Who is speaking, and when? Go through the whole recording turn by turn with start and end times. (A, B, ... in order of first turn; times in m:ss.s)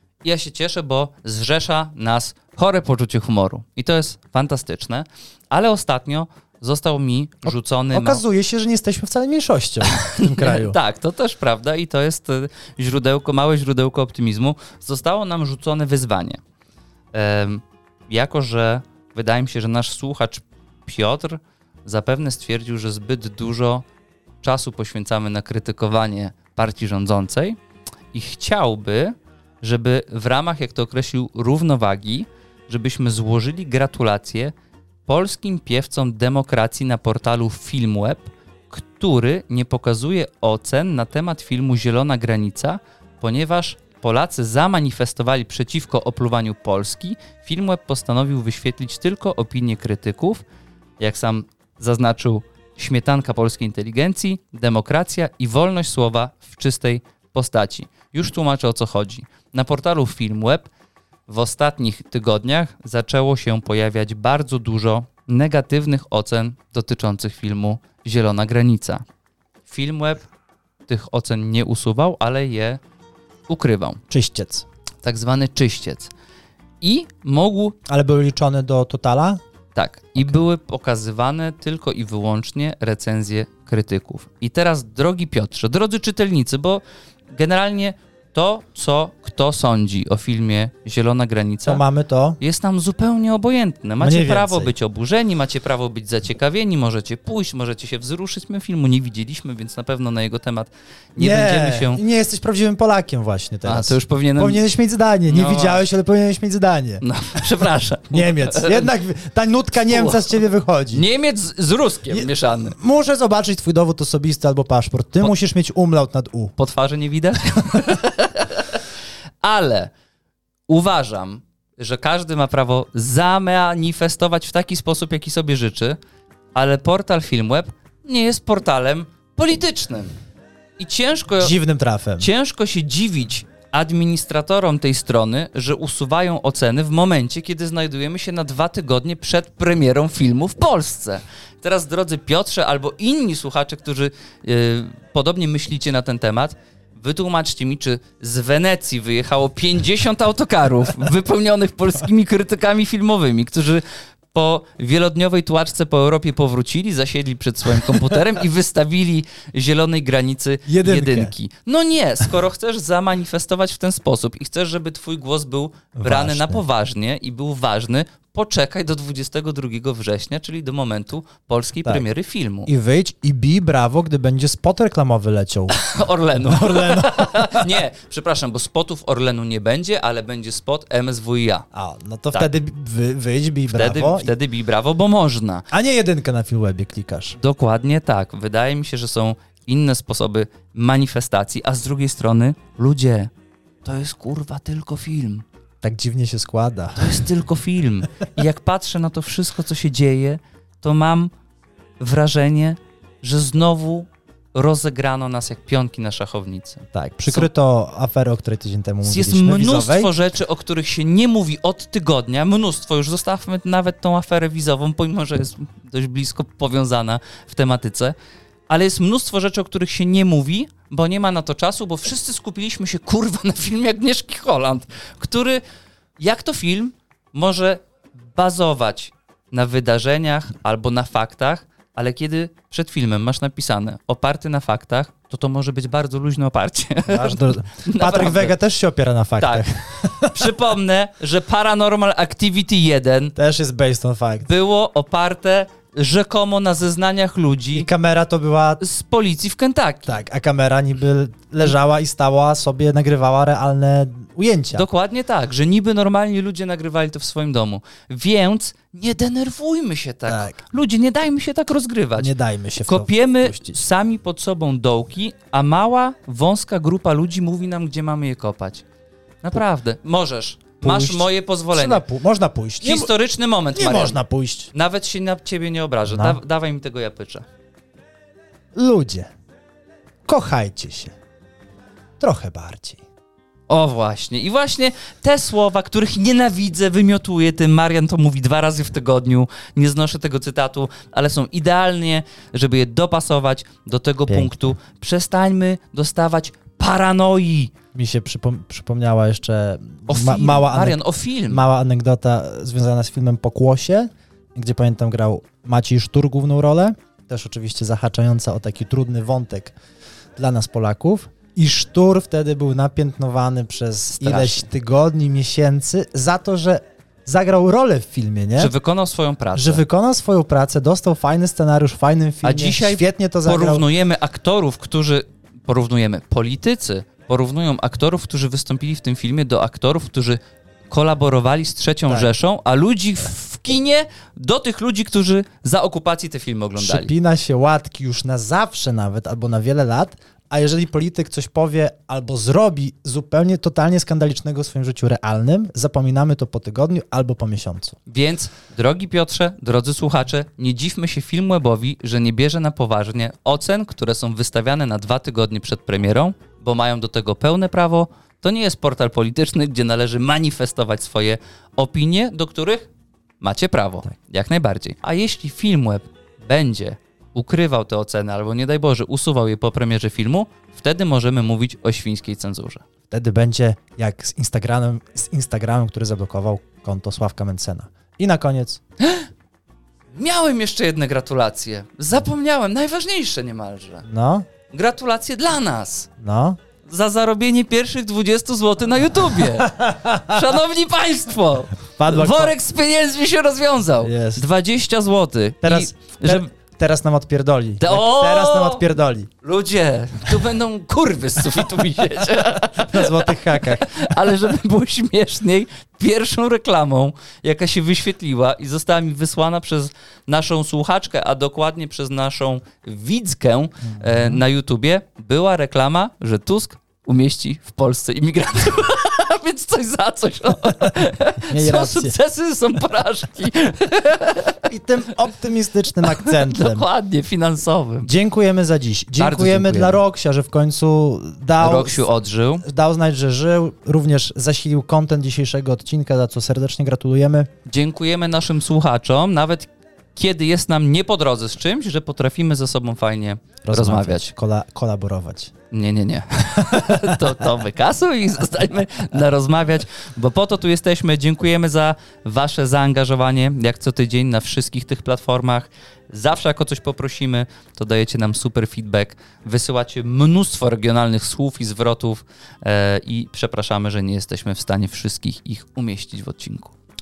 0:00.2-0:08.2 A
0:07.5-0:10.8 B
0:09.9-0:16.4 A
0:17.1-0:23.9 A
0:24.4-0:27.6 A
0:28.1-0:34.5 A
0:35.1-0:50.4 A
0:51.0-1:00.7 A
1:01.3-1:09.0 A
1:09.7-1:10.2 A
1:10.9-1:12.8 A
1:13.5-1:14.0 A
1:14.1-1:14.7 B
1:15.0-1:16.1 A
1:16.8-1:17.8 A
1:17.9-1:19.4 B
1:19.8-1:31.8 A
1:31.6-1:32.4 B
1:32.4-1:42.0 A
1:34.0-1:34.7 B
1:41.2-1:47.0 B
1:43.6-1:44.6 A
1:45.3-1:45.8 A
1:47.0-1:48.9 A
1:47.6-1:51.0 B
1:49.9-1:50.3 A
1:50.9-1:52.8 A
1:52.1-1:56.6 B
1:56.6-1:58.8 A
1:59.4-1:59.9 A
2:00.7-2:06.0 A
2:06.6-2:10.1 A
2:10.8-2:11.5 A
2:11.4-2:12.3 B
2:12.2-2:52.7 A
2:40.7-2:41.4 B
2:46.0-2:46.6 B
2:52.7-2:55.8 B
2:55.7-3:01.7 A
2:56.4-2:57.8 B
3:01.7-3:04.3 B
3:03.7-3:05.7 A
3:05.7-3:07.4 B
3:07.4-3:13.3 A
3:13.8-3:15.4 A
3:15.8-3:17.2 B
3:17.0-3:21.3 A
3:22.0-3:27.5 A
3:26.9-3:30.1 B
3:29.0-3:38.2 A
3:38.7-3:45.6 A
3:46.2-3:58.6 A
3:57.1-4:00.5 B
3:59.4-3:59.6 A
4:00.2-4:03.3 A
4:03.4-4:04.5 B
4:04.4-4:07.9 A
4:07.7-4:08.8 B
4:08.8-4:10.2 A
4:10.1-4:14.9 B
4:14.7-4:22.3 A
4:20.3-4:20.6 B
4:22.2-4:23.8 B
4:22.9-4:28.8 A
4:29.4-4:32.0 A
4:30.8-4:33.1 B
4:32.8-4:34.2 A
4:33.7-4:34.7 B
4:34.7-4:37.4 A
4:36.1-4:36.4 B
4:38.7-4:39.3 B
4:40.3-4:41.1 B
4:42.2-4:43.0 B
4:43.7-4:57.7 A
4:54.3-4:54.8 B
4:57.9-5:09.8 B
5:00.1-5:01.6 A
5:10.4-5:18.7 B
5:14.1-5:14.7 A
5:18.6-5:19.8 A
5:19.6-5:23.9 B
5:22.4-5:37.1 A
5:32.1-5:32.3 B
5:36.8-5:48.0 B
5:48.1-6:02.9 A
6:03.4-6:12.8 A
6:13.1-6:18.8 B
6:19.0-6:19.3 A
6:20.1-6:24.1 A
6:24.0-6:24.5 B
6:24.7-6:26.1 A
6:26.2-6:26.6 B
6:26.9-6:36.5 A
6:29.6-6:30.4 B
6:32.0-6:32.6 B
6:34.0-6:34.4 B
6:35.6-6:39.3 B
6:37.8-6:38.9 A
6:39.4-7:04.7 A
6:42.8-6:44.2 B
6:53.9-6:54.4 B
7:01.4-7:02.2 B
7:04.7-7:06.9 B
7:06.1-7:08.1 A
7:08.0-7:12.0 B
7:09.2-7:10.0 A
7:11.6-7:12.6 A
7:12.6-7:17.5 B
7:17.7-7:24.3 A
7:23.6-7:25.5 B
7:25.7-7:46.7 A
7:26.7-7:27.2 B